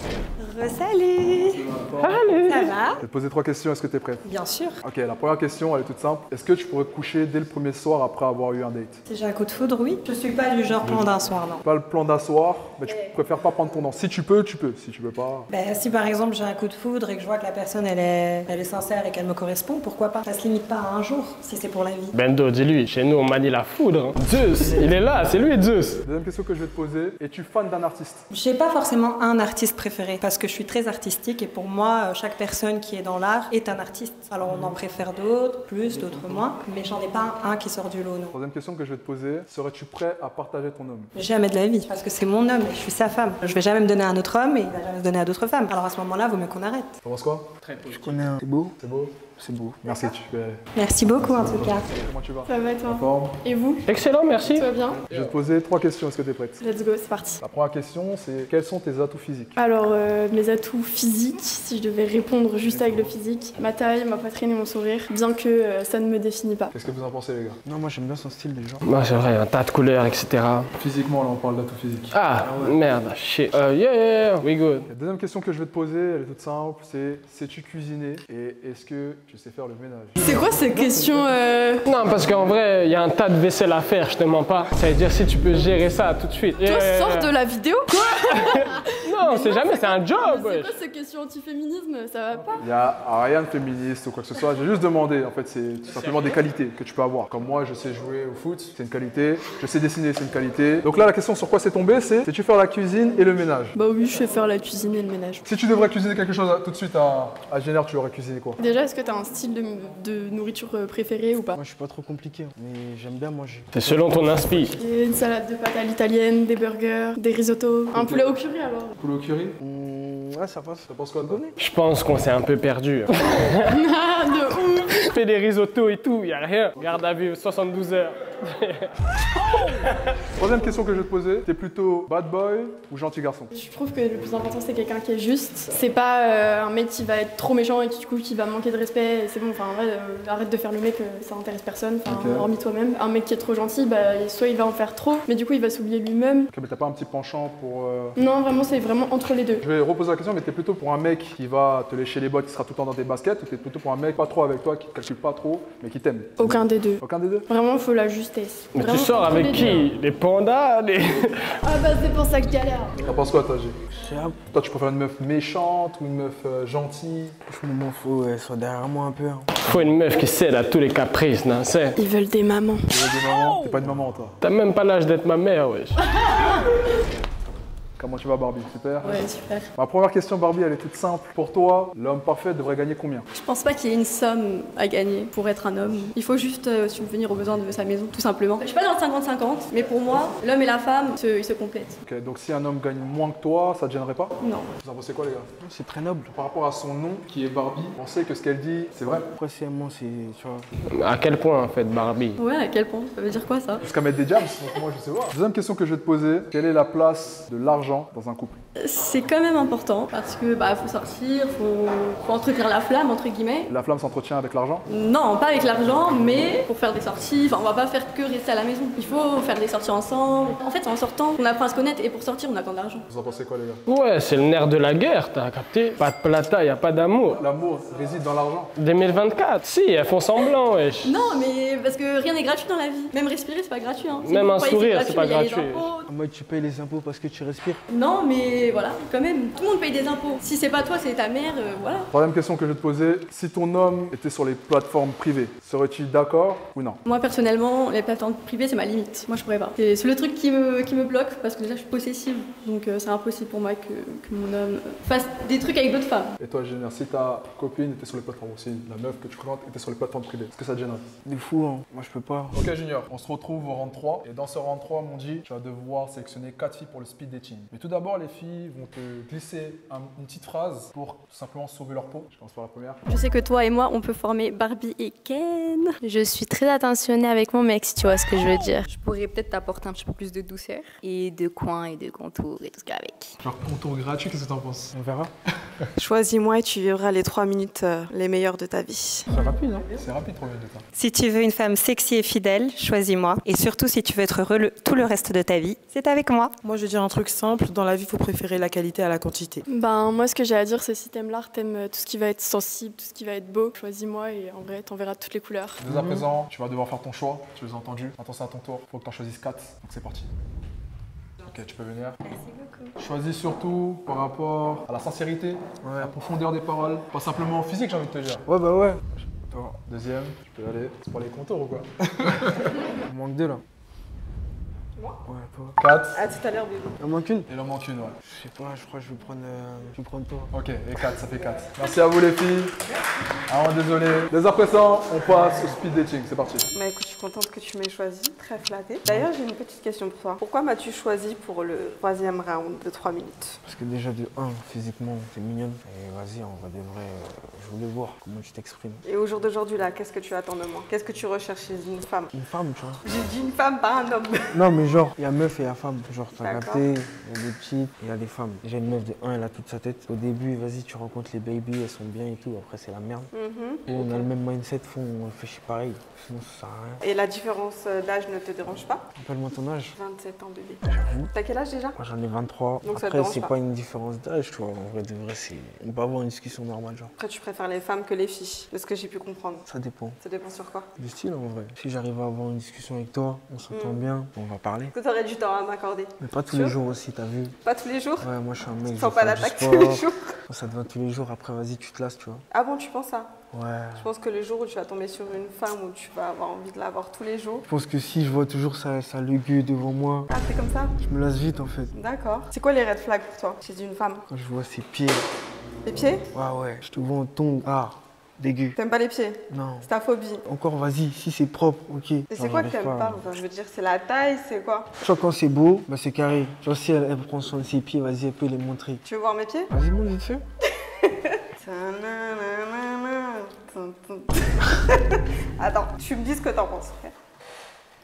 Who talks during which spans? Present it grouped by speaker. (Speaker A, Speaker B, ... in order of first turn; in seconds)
Speaker A: 0.4-1.6, 2.5-3.0, 4.2-4.8, 9.1-11.6, 15.5-22.1, 28.3-38.4, 41.1-47.0, 50.8-51.9, 290.9-296.5
Speaker B: 1.5-2.3, 3.0-4.2, 4.8-9.0, 10.8-11.1, 11.6-15.5, 26.0-28.2, 38.3-41.1, 47.0-47.5, 48.8-49.2, 49.8-50.6, 51.2-53.4, 55.1-56.6, 57.4-59.5, 66.7-67.6, 70.8-72.1, 74.9-80.4, 92.6-103.7, 105.4-108.6, 117.9-118.3, 118.9-119.5, 120.9-121.4, 130.3-133.5, 142.1-142.5, 146.5-148.2, 149.6-157.5, 163.0-163.8, 164.5-167.3, 172.9-174.3, 178.0-179.2, 179.8-183.3, 192.0-195.5, 196.3-199.2, 203.8-208.6, 213.7-214.8, 223.1-223.8, 227.3-228.7, 242.1-247.0, 256.4-261.1, 262.5-273.0, 283.4-284.9, 289.9-290.8, 305.8-310.3, 311.4-312.2, 313.0-318.4, 319.9-322.7, 325.8-326.2, 327.5-328.1, 330.5-332.8, 333.5-336.7
Speaker C: 2.0-2.7, 22.1-26.0, 47.6-48.3, 53.9-55.3, 68.8-70.7, 72.1-74.9, 81.8-87.3, 87.9-90.8, 95.9-96.4, 113.7-114.8, 121.6-123.8, 124.9-128.9, 129.5-129.9, 158.7-161.5, 169.6-172.0, 174.4-176.0, 200.9-202.4, 223.9-227.4, 228.8-231.2, 234.2-235.9
Speaker D: 24.2-25.0, 35.8-36.5, 47.9-48.8, 49.3-50.0, 62.7-63.1, 67.6-68.8, 72.4-72.8, 111.5-114.6, 119.6-121.5, 163.9-164.4, 167.5-169.9, 195.6-196.3, 199.3-200.7, 236.0-237.8, 261.2-262.6, 284.9-285.3, 289.3-289.9, 305.9-306.2, 315.8-316.1, 318.5-319.8, 323.0-323.6, 325.2-325.8, 327.0-327.5, 328.2-330.5, 343.6-349.0, 352.3-353.0, 354.5-363.3, 363.9-367.0, 369.1-369.9, 370.8-371.3, 371.9-377.1, 379.7-380.2, 381.0-384.9, 386.2-387.6, 388.2-392.4, 393.5-394.1, 397.6-400.3, 401.0-401.9, 404.3-405.3, 406.3-408.8, 409.5-409.9, 410.4-413.2, 415.0-419.0, 419.7-420.4
Speaker E: 52.5-55.1, 56.6-57.4, 59.5-66.7, 80.2-81.8, 89.2-92.6, 103.7-105.4, 108.6-111.5, 114.8-118.9, 123.7-125.1, 133.5-146.5, 148.2-149.6, 156.4-159.9, 161.6-162.9, 172.0-172.9, 299.7-305.8
Speaker F: 86.6-87.9, 179.0-179.7, 183.3-192.0, 194.4-194.7, 202.3-203.8, 208.8-213.7, 214.9-223.1, 231.0-236.1, 237.9-242.1, 247.0-256.3, 273.1-275.9
Speaker G: 276.0-278.8
Speaker H: 278.8-283.3
Speaker I: 285.9-289.3, 312.2-312.9, 326.1-327.0, 336.7-343.6, 349.0-352.3, 353.0-354.6, 356.4-356.9, 363.3-364.3, 367.0-369.0, 369.9-372.0, 372.8-373.5, 377.2-379.6, 380.2-380.9, 383.7-384.0, 384.9-386.8, 387.6-388.3, 388.8-390.3, 392.5-393.3, 393.9-397.6, 400.3-400.9, 401.9-404.2, 405.8-406.2, 408.8-410.4, 412.3-414.9, 419.0-419.7, 421.0-427.1
Speaker J: 296.6-299.6